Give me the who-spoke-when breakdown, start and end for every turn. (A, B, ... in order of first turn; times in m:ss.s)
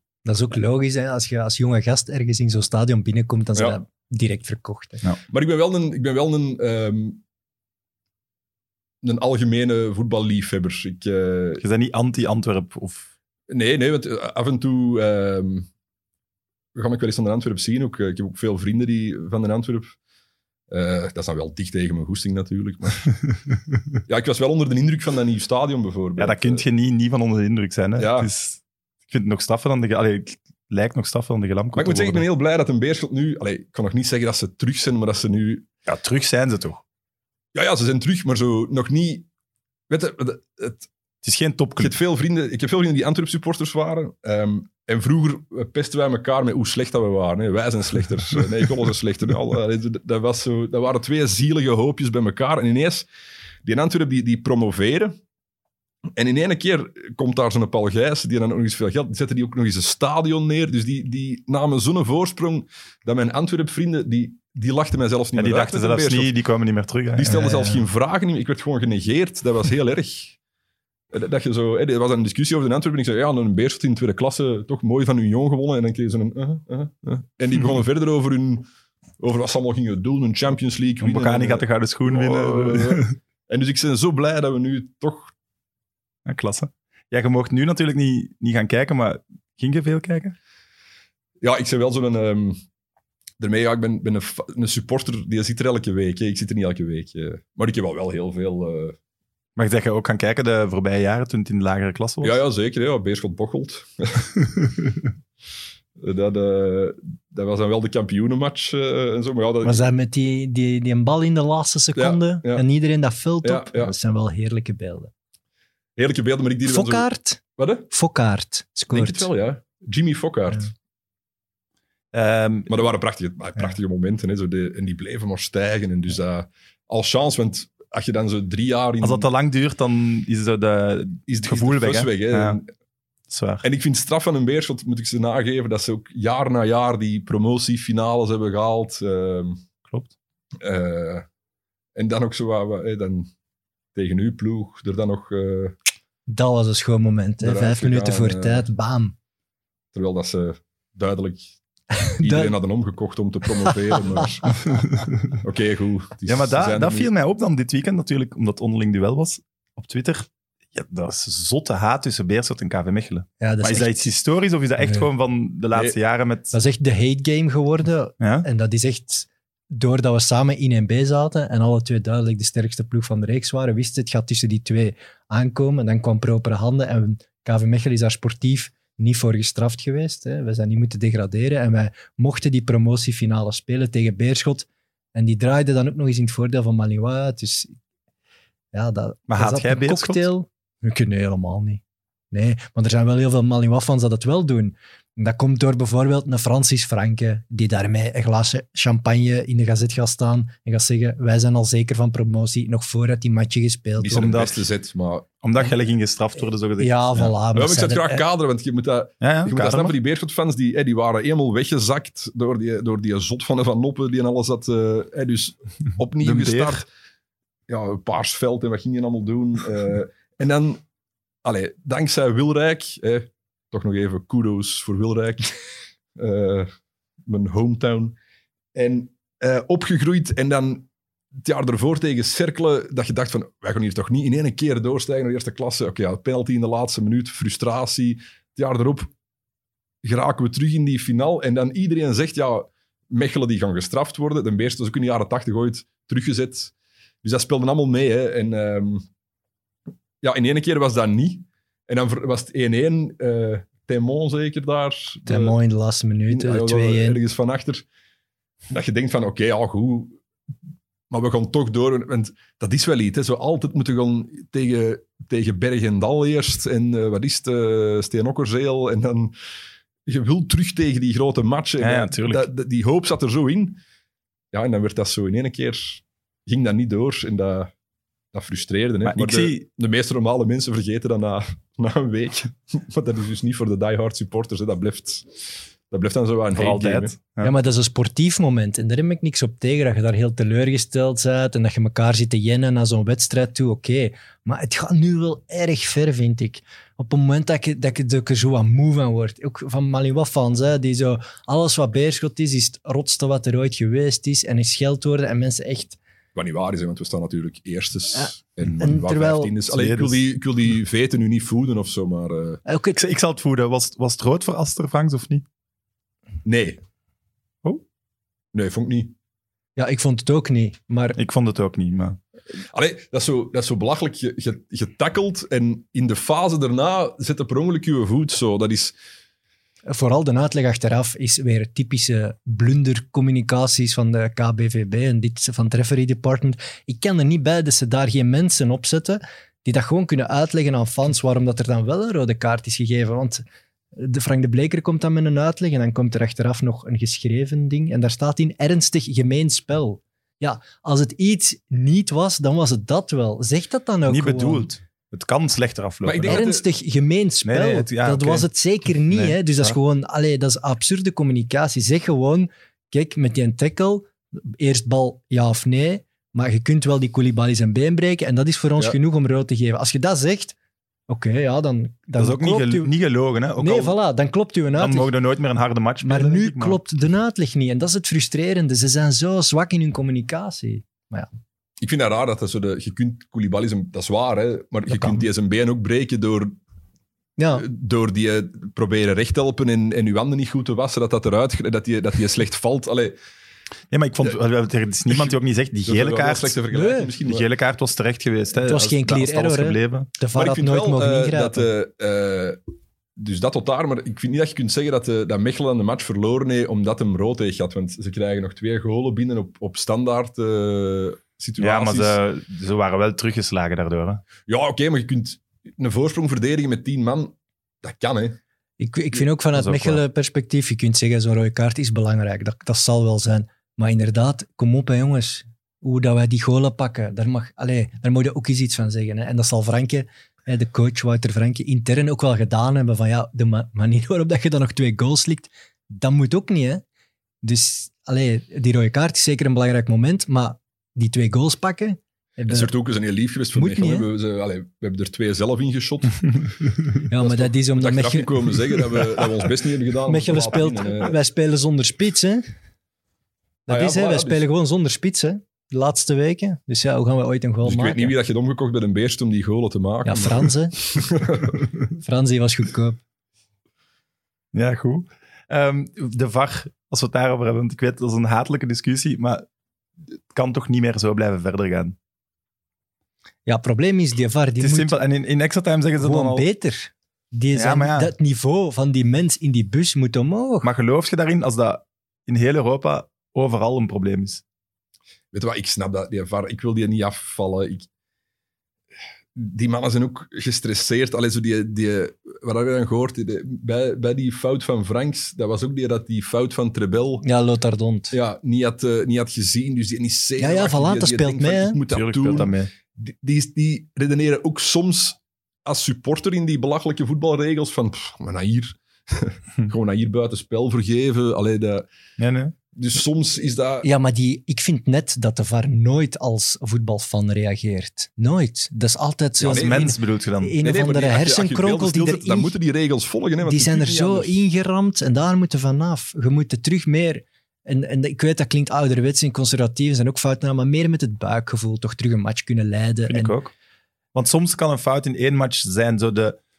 0:00.2-0:05.0 A
0:05.3-0:07.2 B
0:09.0-0:11.6 B
0:11.6-0:13.0 C
0:13.5-0:15.7 B
0:16.7-0:19.9 B
0:20.7-0:23.1 B
0:24.1-0:26.6 B
0:26.2-0:32.2 C
0:28.0-0:28.3 B
0:31.7-0:35.7 B
0:35.9-0:36.8 C
0:37.5-0:39.3 B
0:39.9-0:40.9 B
0:41.2-0:41.9 C
0:41.8-0:53.0 B
0:53.6-0:55.2 B
0:56.2-1:06.3 B
1:05.3-1:07.6 C
1:07.2-1:10.4 B
1:11.1-1:18.7 B
1:19.2-1:25.3 B
1:21.0-1:23.1 C
1:26.2-1:30.3 C
1:31.4-1:32.6 B
1:33.4-1:39.0 B
1:39.6-1:42.4 C
1:42.2-1:44.4 B
1:46.0-1:49.8 B
1:49.6-1:55.1 A
1:52.0-1:52.6 B
1:53.4-1:53.9 B
1:56.0-1:57.9 B
1:56.6-1:57.4 A
1:57.9-1:59.3 A
1:58.9-2:00.7 B
2:02.1-2:02.8 C
2:02.7-2:09.3 B
2:09.0-2:12.6 C
2:11.3-2:12.7 B
2:13.3-2:13.6 C
2:13.6-2:19.6 B
2:19.8-2:20.1 C
2:20.6-2:21.2 B
2:22.0-2:23.3 B
2:23.9-2:25.8 B
2:26.3-2:29.1 A
2:27.4-2:28.6 B
2:29.9-2:31.5 B
2:32.0-2:32.5 A
2:32.2-2:34.6 B
2:34.7-2:35.3 C
2:35.3-2:37.1 B
2:36.2-2:46.5 C
2:43.4-2:44.1 A
2:46.5-3:07.7 A
2:48.2-2:48.5 C
3:08.7-3:24.4 A
3:09.3-3:10.3 C
3:24.0-3:25.3 B
3:24.1-3:24.6 C
3:25.4-3:27.3 C
3:26.8-3:28.2 A
3:27.5-3:36.9 B
3:29.2-3:30.0 C
3:36.2-3:36.8 C
3:37.7-3:40.8 B
3:41.4-3:45.6 B
3:46.2-3:46.7 B
3:47.3-3:48.1 B
3:48.7-3:59.1 B
4:00.0-4:09.0 B
4:10.2-4:15.6 B
4:15.3-4:17.2 A
4:16.3-4:17.8 B
4:18.7-4:20.2 B
4:21.1-4:29.3 B
4:30.1-4:33.8 B
4:31.8-4:32.4 C
4:34.5-4:37.7 B
4:38.3-4:45.4 B
4:39.0-4:39.6 C
4:45.9-4:47.1 B
4:46.5-4:47.5 C
4:47.4-5:06.0 A
5:06.3-5:12.6 B
5:08.1-5:09.5 A
5:09.7-5:10.2 C
5:12.6-5:13.0 A
5:12.9-5:15.4 C
5:16.4-5:16.8 B
5:18.5-5:19.1 B
5:19.8-5:21.2 A
5:21.2-5:22.2 C
5:22.7-5:28.9 B
5:29.9-5:54.7 A
5:54.0-5:56.4 C
5:56.0-5:56.6 B
5:56.2-6:10.6 A
5:57.4-5:59.8 C
6:11.1-6:12.9 A
6:12.2-6:14.0 C
6:13.6-6:15.1 A
6:14.7-6:16.8 C
6:16.0-6:21.3 A
6:21.8-6:26.6 B
6:24.9-6:25.2 A
6:27.4-6:27.6 A
6:27.6-6:33.2 B
6:33.9-6:36.6 C
6:35.1-6:37.4 B
6:36.7-6:37.1 A
6:37.2-6:40.1 C
6:38.6-6:41.7 A
6:40.3-6:42.6 B
6:43.2-6:52.2 B
6:51.6-6:54.2 C
6:54.5-6:58.4 B
6:58.8-7:16.8 A
7:17.4-7:22.7 A
7:22.5-7:26.5 B
7:23.5-7:24.1 A
7:27.1-7:28.7 A
7:27.2-7:31.2 B
7:30.1-7:32.5 A
7:33.7-7:38.1 A
7:33.7-7:34.4 B
7:37.6-7:41.6 B
7:40.0-7:40.8 A
7:42.0-7:43.0 A
7:44.5-7:49.4 C
7:50.3-7:52.0 C
7:53.4-7:55.0 A
7:54.6-7:56.4 C
7:56.0-8:00.7 A
7:57.5-7:58.1 C
8:00.6-8:04.4 C
8:05.3-8:07.8 B
8:09.3-8:17.2 B
8:17.2-8:18.1 A
8:18.1-8:31.9 B
8:20.4-8:21.8 A
8:21.9-8:22.7 C
8:32.2-8:32.5 C
8:32.7-8:33.9 B
8:33.8-8:42.5 A
8:39.4-8:39.8 B
8:39.4-8:40.6 C
8:40.6-8:44.4 B
8:43.4-8:53.4 A
8:53.1-8:53.5 C
8:54.1-8:56.4 C